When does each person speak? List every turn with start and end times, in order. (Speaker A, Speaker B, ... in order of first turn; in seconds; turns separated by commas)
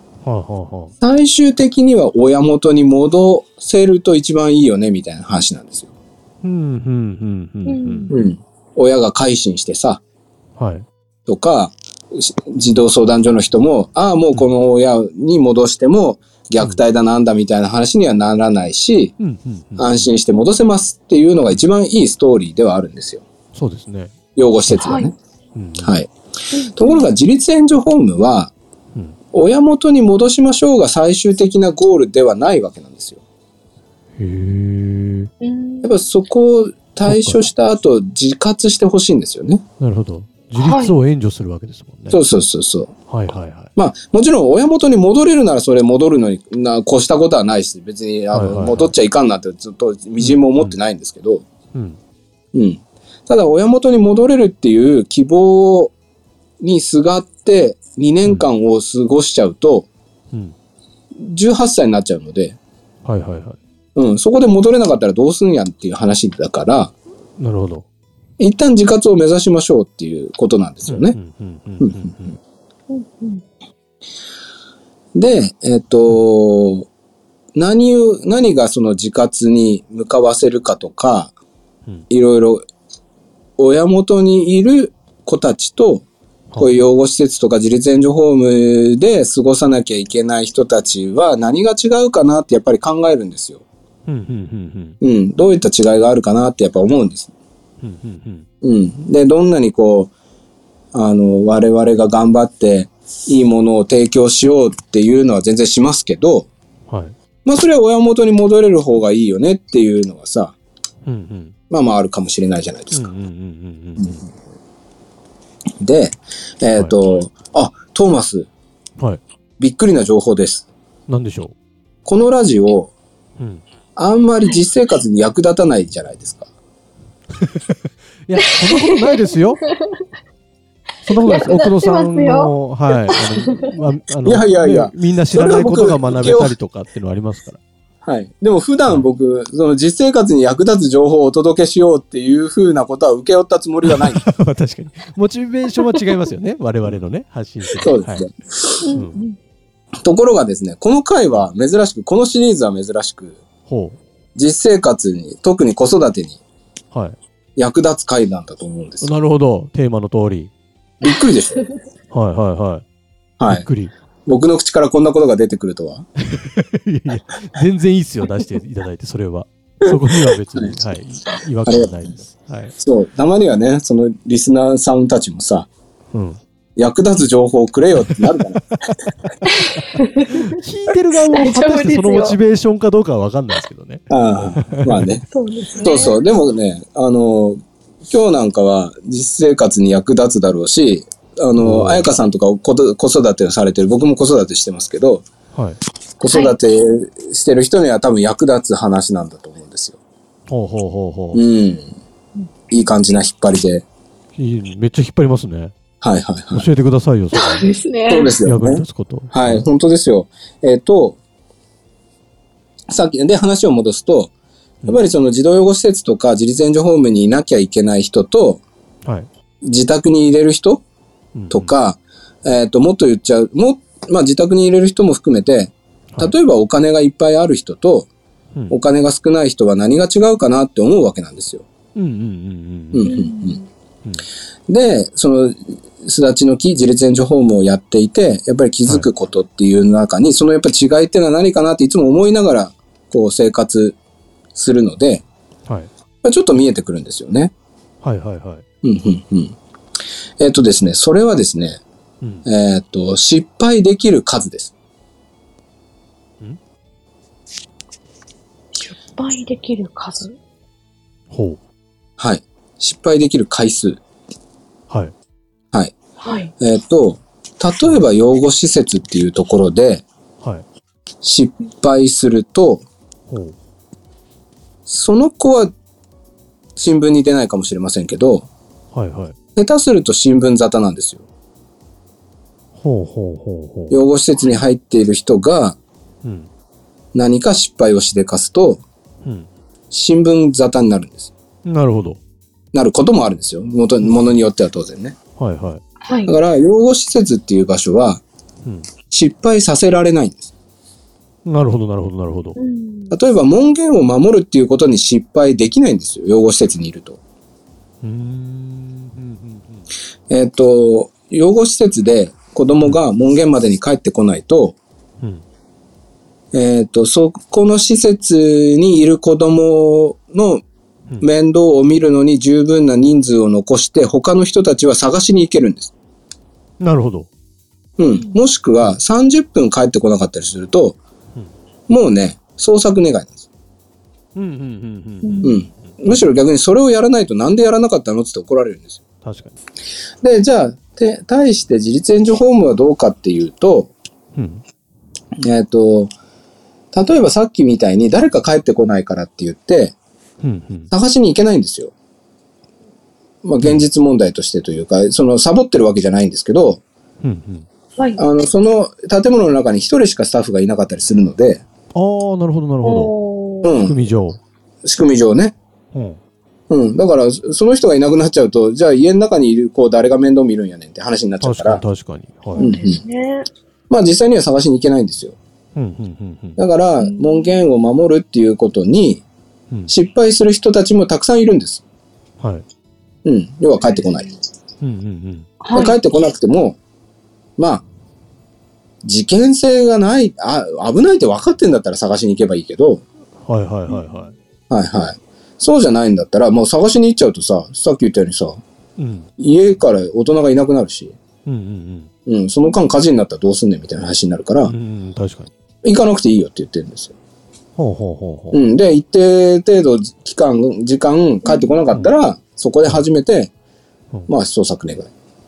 Speaker A: 0.2-0.9, Speaker B: 1.0-5.9, Speaker A: 6.4-8.1, Speaker C: 7.7-8.2, Speaker B: 8.1-10.0, Speaker A: 10.6-10.8, Speaker B: 11.3-19.1, Speaker A: 19.2-20.1, Speaker B: 19.8-23.2, Speaker A: 23.5-24.1, Speaker B: 24.4-25.1, Speaker C: 24.7-25.1, Speaker A: 25.5-26.0, Speaker B: 25.8-26.1, Speaker C: 26.5-27.1, Speaker B: 26.7-28.5, Speaker B: 29.3-33.2, Speaker A: 34.2-35.3, Speaker C: 35.4-35.9, Speaker B: 35.8-39.6, Speaker A: 37.0-37.4, Speaker A: 39.8-42.2, Speaker C: 40.6-40.9, Speaker B: 42.1-42.9, Speaker A: 43.1-43.7, Speaker B: 43.8-51.5, Speaker A: 48.3-48.9, Speaker A: 50.2-50.8, Speaker A: 51.7-52.0, Speaker B: 52.5-55.9, Speaker B: 56.6-59.9, Speaker B: 61.2-62.6, Speaker A: 63.0-63.6, Speaker B: 64.0-66.9, Speaker A: 67.4-67.8, Speaker B: 68.4-71.2, Speaker A: 70.9-72.4, Speaker B: 71.8-72.1, Speaker C: 72.9-73.4, Speaker B: 75.1-76.9, Speaker B: 77.5-81.3, Speaker B: 82.1-82.6, Speaker B: 83.6-86.0, Speaker A: 86.5-86.8, Speaker B: 86.6-93.6, Speaker A: 94.1-95.0, Speaker B: 95.0-97.3, Speaker A: 97.8-98.5, Speaker B: 98.6-100.1, Speaker B: 100.9-106.5, Speaker A: 106.9-107.2, Speaker B: 107.4-110.5, Speaker A: 111.0-111.5, Speaker B: 111.7-113.1, Speaker A: 112.9-114.2, Speaker B: 115.8-118.5, Speaker B: 119.6-120.7, Speaker A: 121.1-121.5, Speaker B: 122.0-122.9, Speaker A: 123.4-123.6, Speaker B: 124.0-126.5, Speaker A: 127.4-129.6, Speaker C: 128.7-129.2, Speaker A: 131.0-137.6, Speaker C: 131.2-132.5, Speaker C: 133.1-133.7, Speaker B: 134.2-136.5, Speaker B: 138.0-144.2, Speaker A: 143.8-148.3, Speaker B: 147.6-148.8, Speaker C: 148.8-149.4, Speaker B: 150.0-153.4, Speaker A: 153.7-154.0, Speaker B: 154.3-156.4, Speaker A: 156.9-157.2, Speaker B: 157.6-159.1, Speaker A: 159.0-160.5, Speaker B: 161.0-161.7, Speaker A: 162.1-162.8, Speaker B: 163.4-163.7, Speaker A: 163.5-163.9, Speaker B: 164.2-166.1, Speaker A: 166.3-172.7, Speaker B: 169.8-170.8, Speaker B: 171.7-171.9, Speaker B: 172.8-175.7, Speaker A: 176.1-176.4, Speaker B: 176.8-178.9, Speaker C: 179.5-180.4, Speaker A: 180.3-185.1, Speaker C: 181.3-182.4, Speaker B: 184.1-185.2, Speaker C: 185.3-186.2, Speaker B: 185.7-195.3, Speaker A: 191.6-192.1, Speaker B: 196.2-200.0, Speaker C: 196.3-196.6, Speaker A: 200.5-201.4, Speaker B: 201.3-201.9, Speaker B: 202.7-203.8, Speaker A: 204.3-205.7, Speaker B: 206.0-206.7, Speaker A: 206.5-207.7, Speaker C: 207.3-208.3, Speaker B: 208.1-211.2, Speaker A: 208.4-209.7, Speaker B: 212.9-214.3, Speaker B: 214.8-218.6, Speaker B: 219.6-220.8, Speaker A: 221.3-221.7, Speaker B: 221.5-228.1, Speaker B: 228.7-231.6, Speaker A: 231.9-233.1, Speaker B: 232.9-233.6, Speaker C: 233.0-233.7, Speaker B: 234.7-244.0, Speaker B: 244.5-245.2, Speaker B: 246.2-247.5, Speaker A: 248.0-248.6, Speaker B: 248.8-249.6, Speaker B: 250.4-251.8, Speaker A: 252.2-252.4, Speaker B: 252.4-254.7, Speaker C: 258.9-260.3, Speaker A: 261.3-261.6, Speaker B: 262.2-264.0, Speaker A: 264.9-265.1, Speaker C: 266.2-266.5, Speaker B: 266.6-270.0, Speaker B: 271.2-272.8, Speaker A: 273.3-273.6, Speaker B: 274.9-275.7, Speaker B: 276.8-278.5, Speaker A: 278.9-279.4, Speaker B: 279.6-281.2, Speaker A: 282.8-283.9, Speaker B: 283.9-285.8, Speaker A: 286.2-286.5, Speaker B: 287.1-288.8, Speaker A: 289.2-289.5, Speaker B: 289.9-291.3, Speaker A: 291.6-292.2, Speaker B: 292.7-295.1, Speaker A: 295.4-295.8, Speaker C: 296.0-296.4, Speaker B: 296.2-298.2, Speaker B: 299.1-300.5, Speaker A: 301.4-302.6, Speaker C: 302.6-303.1, Speaker B: 303.1-307.2, Speaker A: 308.0-309.8, Speaker B: 310.3-314.8, Speaker B: 316.5-320.6, Speaker B: 321.2-325.9, Speaker A: 326.8-327.3, Speaker B: 328.0-331.0, Speaker B: 331.9-333.4, Speaker A: 334.3-336.3, Speaker C: 335.2-335.6, Speaker B: 335.4-339.0, Speaker A: 339.2-339.6, Speaker B: 340.2-343.9, Speaker A: 344.3-344.6, Speaker B: 345.4-346.1, Speaker B: 346.9-349.9, Speaker A: 350.4-350.9, Speaker B: 350.9-351.9, Speaker B: 353.4-356.8, Speaker A: 357.2-357.7, Speaker C: 358.0-358.2, Speaker B: 358.2-361.6, Speaker A: 361.9-363.1, Speaker C: 362.8-363.8, Speaker B: 363.6-364.0, Speaker A: 363.7-364.4, Speaker B: 364.8-365.6, Speaker A: 365.9-366.2, Speaker B: 366.7-371.8, Speaker A: 371.4-372.7, Speaker C: 372.5-373.5, Speaker B: 372.6-373.0, Speaker B: 373.9-375.4, Speaker A: 375.7-376.6, Speaker B: 376.6-379.2, Speaker C: 377.0-377.6, Speaker B: 379.9-381.8, Speaker A: 382.4-382.6, Speaker B: 383.2-384.3, Speaker C: 383.8-384.1, Speaker A: 384.8-385.5, Speaker C: 385.6-386.0, Speaker B: 385.7-386.8, Speaker B: 387.6-387.8, Speaker B: 389.0-393.0, Speaker A: 393.4-394.3, Speaker C: 393.9-394.1, Speaker B: 394.7-398.6, Speaker A: 399.0-399.3, Speaker B: 399.4-401.1, Speaker A: 401.4-402.1, Speaker B: 402.2-404.7, Speaker A: 404.6-405.5, Speaker B: 405.8-407.1, Speaker A: 407.8-408.6, Speaker B: 408.5-413.5, Speaker C: 411.4-411.7, Speaker B: 414.3-415.1